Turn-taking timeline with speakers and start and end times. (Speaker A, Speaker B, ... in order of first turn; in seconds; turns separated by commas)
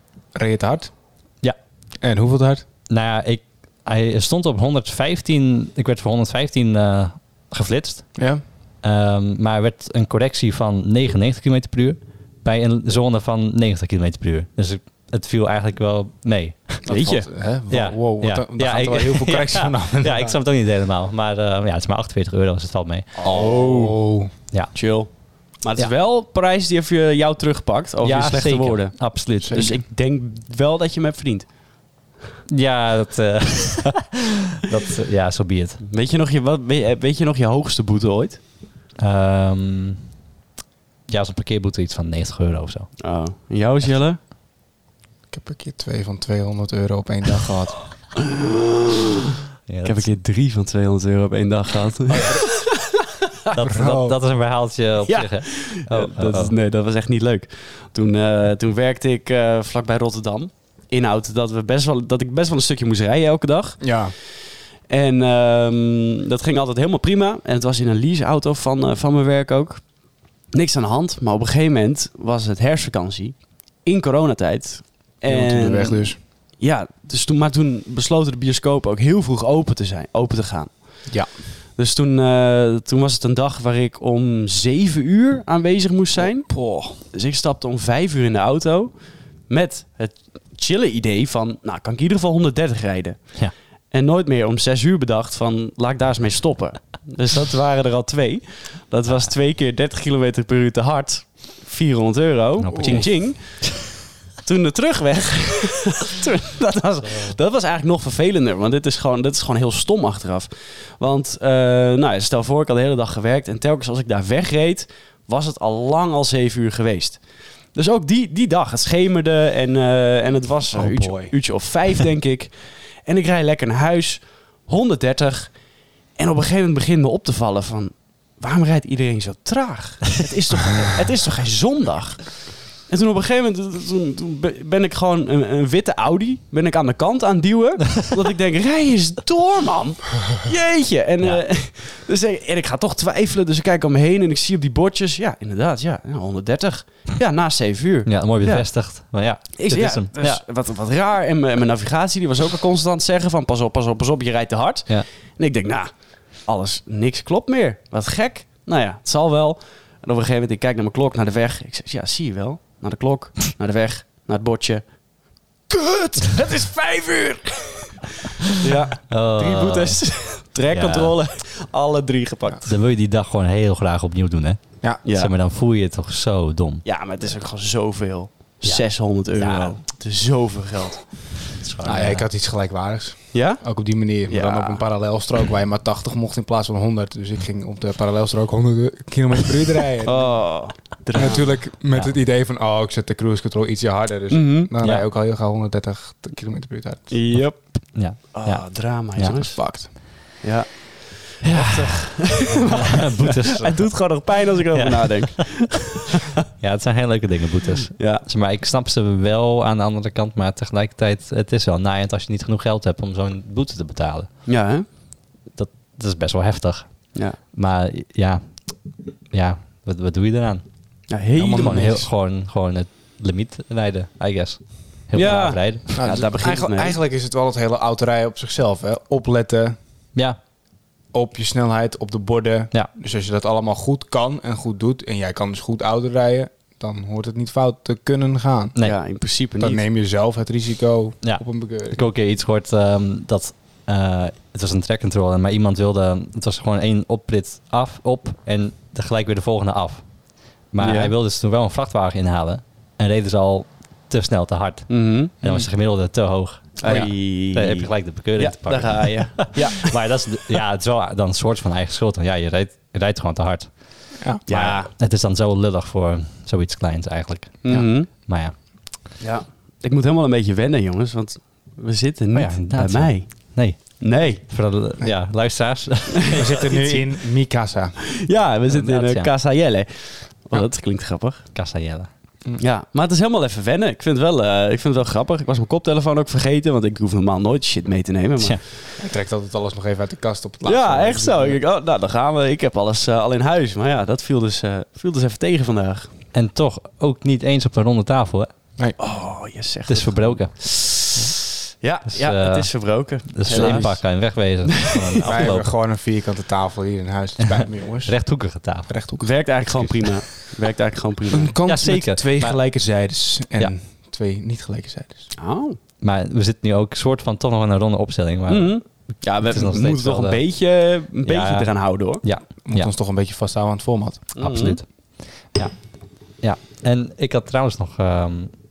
Speaker A: 0.3-0.9, Speaker A: 2.0-2.6, Speaker B: 2.9-8.2, Speaker A: 8.1-8.4, Speaker B: 8.8-16.9, Speaker C: 16.9-17.2, Speaker A: 16.9-20.4, Speaker B: 17.7-23.3, Speaker C: 23.1-24.1, Speaker A: 23.2-24.3, Speaker B: 24.5-24.8, Speaker C: 24.7-31.5, Speaker B: 28.0-29.8, Speaker A: 29.4-29.8, Speaker B: 32.5-35.8, Speaker C: 35.8-38.4, Speaker B: 39.0-40.0, Speaker B: 41.1-42.9, Speaker C: 43.0-44.2, Speaker A: 45.3-47.9, Speaker C: 48.2-49.0, Speaker B: 49.7-50.1, Speaker C: 49.8-53.1, Speaker B: 52.1-52.5, Speaker B: 53.5-56.5, Speaker A: 53.5-54.1, Speaker C: 55.0-64.1, Speaker A: 63.8-64.1, Speaker C: 64.9-103.8, Speaker A: 75.2-76.2, Speaker A: 86.2-87.0, Speaker B: 102.6-103.7, Speaker A: 102.7-103.0, Speaker C: 104.4-125.6, Speaker B: 107.0-107.3, Speaker A: 120.7-121.3, Speaker C: 126.1-148.7, Speaker B: 148.1-150.4, Speaker C: 149.4-164.9, Speaker C: 165.7-172.7, Speaker B: 169.1-170.0, Speaker B: 170.7-171.1, Speaker B: 172.6-176.8, Speaker C: 175.0-175.3, Speaker C: 176.8-181.3, Speaker B: 178.6-179.8, Speaker B: 181.6-182.3, Speaker A: 181.8-190.5, Speaker C: 183.3-183.6, Speaker C: 184.3-184.8, Speaker C: 190.0-191.5, Speaker A: 191.1-197.2, Speaker C: 194.3-194.7, Speaker C: 197.1-206.2, Speaker B: 197.3-199.4, Speaker A: 199.4-199.9, Speaker B: 201.4-204.1, Speaker B: 204.7-205.7, Speaker B: 206.5-214.3, Speaker C: 207.9-208.2, Speaker C: 214.4-214.9, Speaker B: 215.5-220.7, Speaker C: 217.1-217.4, Speaker C: 221.1-222.0, Speaker A: 221.3-222.1, Speaker B: 221.4-225.8, Speaker C: 225.1-227.0, Speaker A: 225.9-229.8, Speaker A: 231.1-238.8, Speaker C: 238.8-239.8, Speaker A: 239.6-242.0, Speaker B: 241.2-268.5, Speaker C: 250.8-251.1, Speaker C: 254.9-255.3, Speaker C: 256.8-260.2, Speaker A: 264.2-264.5, Speaker C: 264.5-264.9, Speaker C: 267.6-268.1, Speaker C: 269.2-274.4, Speaker B: 272.3-276.8, Speaker A: 276.3-278.1, Speaker C: 276.5-277.0, Speaker C: 278.1-281.4, Speaker B: 278.7-279.3, Speaker B: 281.5-282.1, Speaker C: 282.6-288.6, Speaker A: 288.9-291.6, Speaker C: 290.6-296.1, Speaker B: 296.3-298.5, Speaker C: 299.0-305.3, Speaker B: 299.9-300.7, Speaker B: 302.1-305.7, Speaker A: 303.5-304.0, Speaker A: 305.2-309.3, Speaker B: 307.4-308.9, Speaker C: 309.2-311.5, Speaker B: 309.7-310.1, Speaker A: 311.3-315.3, Speaker B: 311.6-312.6, Speaker C: 315.4-315.8, Speaker B: 316.0-320.4, Speaker C: 318.5-322.2, Speaker B: 321.2-322.9, Speaker A: 322.6-324.4, Speaker C: 324.4-324.8, Speaker B: 324.4-328.5